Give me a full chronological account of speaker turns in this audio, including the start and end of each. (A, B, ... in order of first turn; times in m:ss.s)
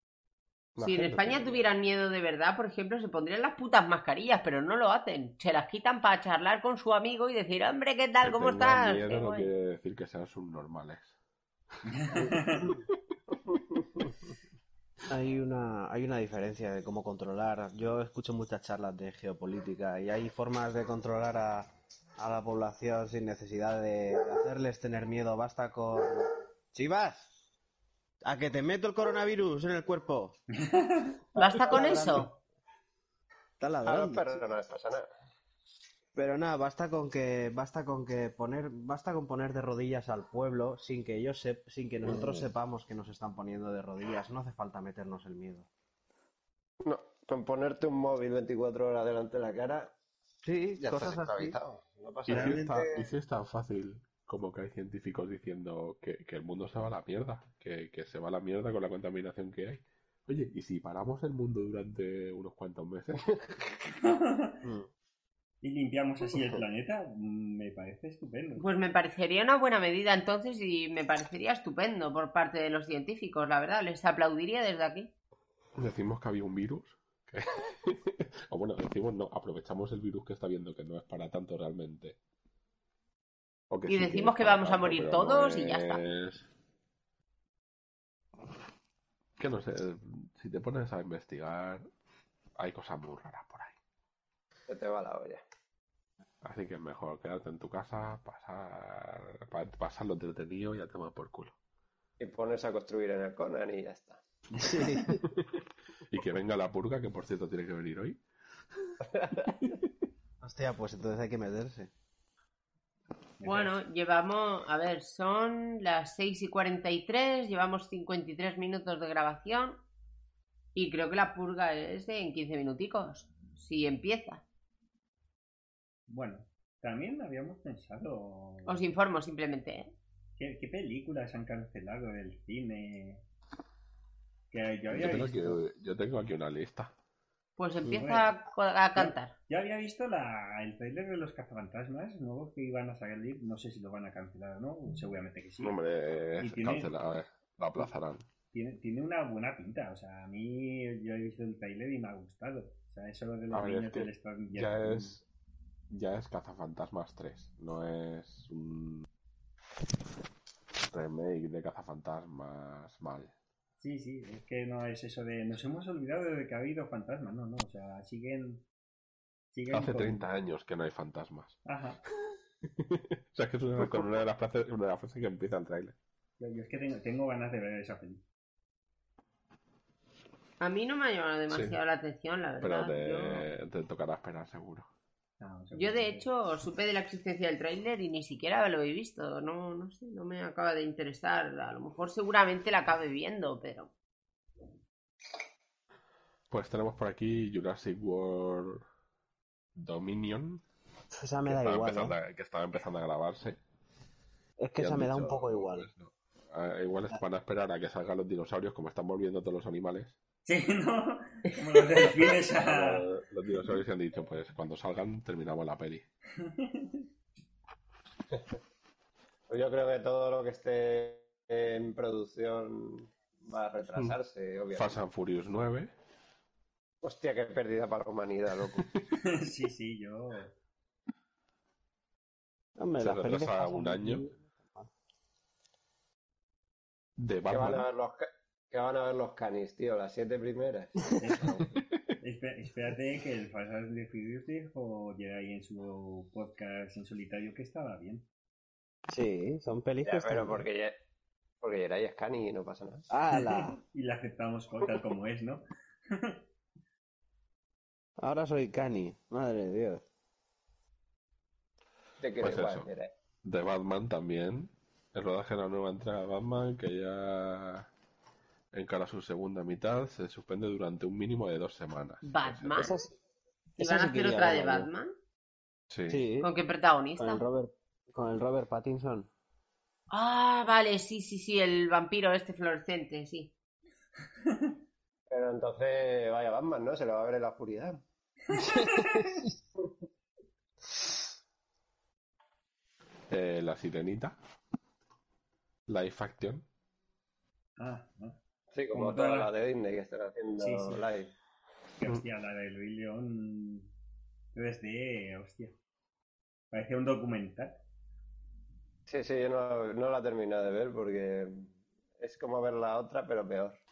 0:00.8-0:01.6 A
0:00.8-0:09.5 B
0:08.2-0:11.1 A
0:11.9-0:12.7 C
0:15.1-0:27.3 D
0:28.2-0:30.4 D
0:30.6-0:31.1 C
0:31.4-0:32.2 E
0:31.4-0:32.3 B
0:31.6-0:32.3 D
0:33.6-0:34.4 D
0:33.8-0:35.1 E
0:36.1-0:45.7 D
0:46.8-0:49.9 E
0:50.4-0:51.6 D
0:50.8-0:52.9 E
0:52.3-1:03.4 A
0:52.3-0:53.0 D
1:04.0-1:04.6 C
1:05.6-1:08.7 C
1:08.6-1:15.1 B
1:15.8-1:22.2 A
1:23.7-1:26.4 A
1:23.9-1:26.0 B
1:29.4-1:31.8 A
1:32.6-1:33.8 A
1:34.7-1:35.4 E
1:36.4-1:41.6 A
1:42.2-1:44.2 E
1:44.6-1:45.2 D
1:45.3-1:45.5 A
1:46.1-1:48.2 A
1:49.1-1:49.6 E
1:50.4-1:51.9 D
1:53.4-1:53.8 C
1:53.4-1:59.8 B
2:00.7-2:04.4 B
2:06.1-2:08.9 C
2:08.6-2:09.9 B
2:10.4-2:13.2 C
2:14.5-2:15.6 C
2:14.9-2:16.9 A
2:17.6-2:19.3 B
2:17.9-2:18.3 C
2:19.0-2:25.7 C
2:25.6-2:28.2 A
2:26.4-2:26.9 C
2:28.5-2:35.2 C
2:33.5-2:35.2 A
2:35.9-2:39.1 A
2:40.9-2:43.3 A
2:43.8-2:48.6 C
2:49.5-2:50.2 C
2:49.7-2:51.6 A
2:51.6-2:52.0 C
2:52.3-2:55.9 A
2:56.4-2:58.2 C
3:00.6-3:03.5 B
3:01.5-3:01.8 A
3:02.6-3:04.9 A
3:05.4-3:06.2 C
3:05.7-3:13.9 B
3:16.5-3:18.8 A
3:19.8-3:20.6 A
3:21.1-3:22.1 D
3:21.4-3:23.6 A
3:24.6-3:25.9 D
3:24.8-3:30.2 A
3:30.4-3:33.0 C
3:32.0-3:36.0 A
3:36.4-3:37.0 C
3:39.5-3:45.0 E
3:44.7-3:45.9 A
3:47.0-3:48.8 E
3:48.8-3:49.1 A
3:49.2-3:50.5 C
3:52.8-3:54.9 D
3:53.0-3:54.2 A
3:57.2-3:57.9 A
3:57.5-4:01.5 E
4:01.2-4:08.2 C
4:01.7-4:02.0 A
4:09.1-4:10.6 D
4:10.0-4:10.9 E
4:11.6-4:13.0 E
4:13.1-4:13.8 D
4:13.9-4:16.3 C
4:18.2-4:20.0 D
4:22.2-4:23.1 E
4:22.4-4:22.9 A
4:23.4-4:27.9 A
4:28.7-4:32.9 A
4:32.2-4:33.0 B
4:32.8-4:33.1 D
4:33.8-4:34.9 D
4:33.8-4:35.1 B
4:35.9-4:36.2 A
4:36.1-4:36.5 D
4:36.4-4:37.4 B
4:37.2-4:39.3 D
4:40.1-4:43.5 B
4:45.3-4:48.0 E
4:48.5-4:49.5 D
4:53.3-4:54.4 A
4:55.9-4:56.6 A
4:57.8-4:58.4 C
4:58.7-5:01.3 E
4:58.9-4:59.5 C
5:00.6-5:01.0 C
5:02.0-5:03.9 C
5:04.5-5:05.7 C
5:06.7-5:07.8 C
5:09.1-5:13.8 E